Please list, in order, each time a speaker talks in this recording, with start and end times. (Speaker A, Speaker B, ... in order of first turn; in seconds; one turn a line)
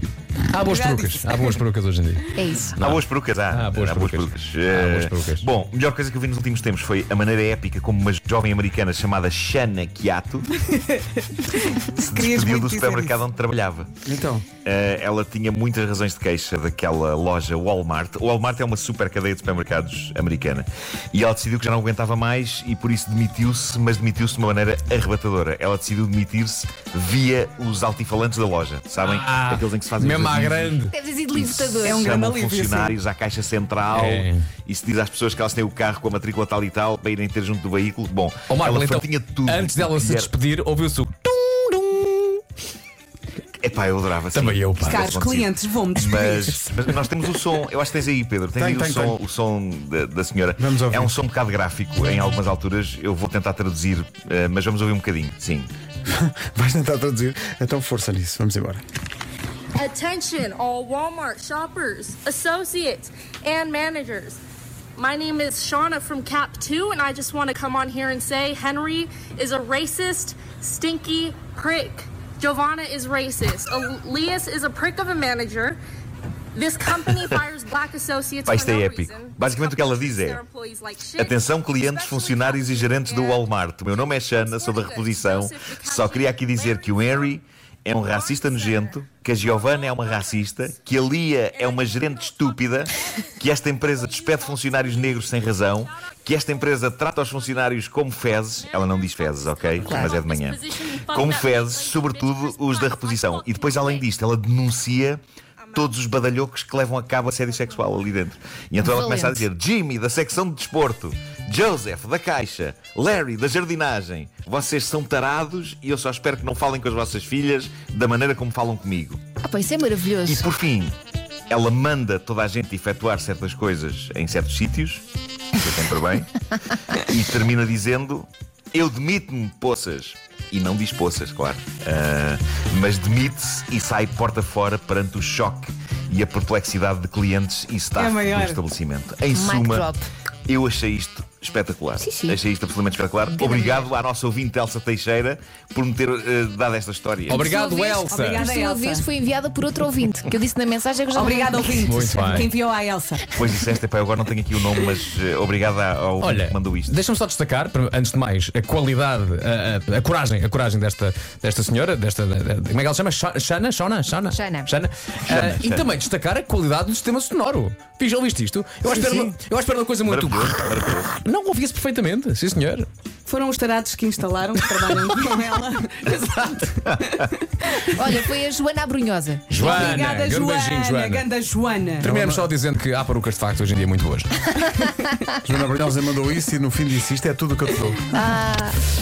Speaker A: 0.5-5.5
Speaker B: 0.6-1.6
Speaker C: 2.4-2.8
Speaker D: 2.8-10.5
Speaker B: 10.8-13.1
Speaker D: 11.8-13.9
Speaker E: 14.1-14.4
Speaker D: 14.6-30.8
Speaker A: 29.0-30.9
Speaker C: 30.9-32.1
Speaker D: 31.3-40.3
Speaker B: 31.8-32.9
Speaker A: 33.9-34.4
Speaker A: 38.5-42.4
Speaker D: 43.6-55.7
Speaker A: 44.3-45.1
Speaker B: 44.9-46.8
Speaker E: 48.6-49.2
Speaker E: 50.6-51.1
Speaker E: 56.1-58.8
Speaker F: 59.8-64.4
Speaker F: 65.0-75.8
Speaker F: 76.5-87.4
Speaker D: 78.5-80.4
Speaker D: 81.2-105.2
Speaker F: 88.0-89.0
Speaker F: 89.6-90.4
Speaker F: 91.5-92.7
Speaker F: 93.7-96.1
Speaker F: 98.9-104.1
Speaker C: 99.8-100.1
Speaker F: 105.6-106.0
Speaker D: 105.7-119.2
Speaker F: 107.5-108.1
Speaker C: 108.8-109.4
Speaker C: 119.4-120.5
Speaker D: 120.3-121.0
Speaker D: 121.5-125.0
Speaker D: 125.5-126.3
Speaker D: 126.9-139.9
Speaker B: 138.0-138.6
Speaker C: 139.3-140.1
Speaker D: 140.5-147.5
Speaker C: 142.0-142.4
Speaker C: 143.3-143.9
Speaker A: 147.3-148.4
Speaker C: 147.3-151.9
Speaker B: 148.0-149.1
Speaker B: 151.1-153.3
Speaker A: 151.8-152.5
Speaker D: 153.3-156.9
Speaker A: 156.2-172.9
Speaker C: 164.3-164.7
Speaker D: 165.3-165.9
Speaker C: 168.9-169.3
Speaker D: 170.1-171.2
Speaker B: 173.3-178.1
Speaker C: 177.8-179.9
Speaker A: 179.5-181.3
Speaker B: 179.8-182.1
Speaker E: 182.0-182.5
Speaker A: 182.0-184.4
Speaker C: 184.6-185.2
Speaker E: 185.4-188.2
Speaker C: 188.1-188.8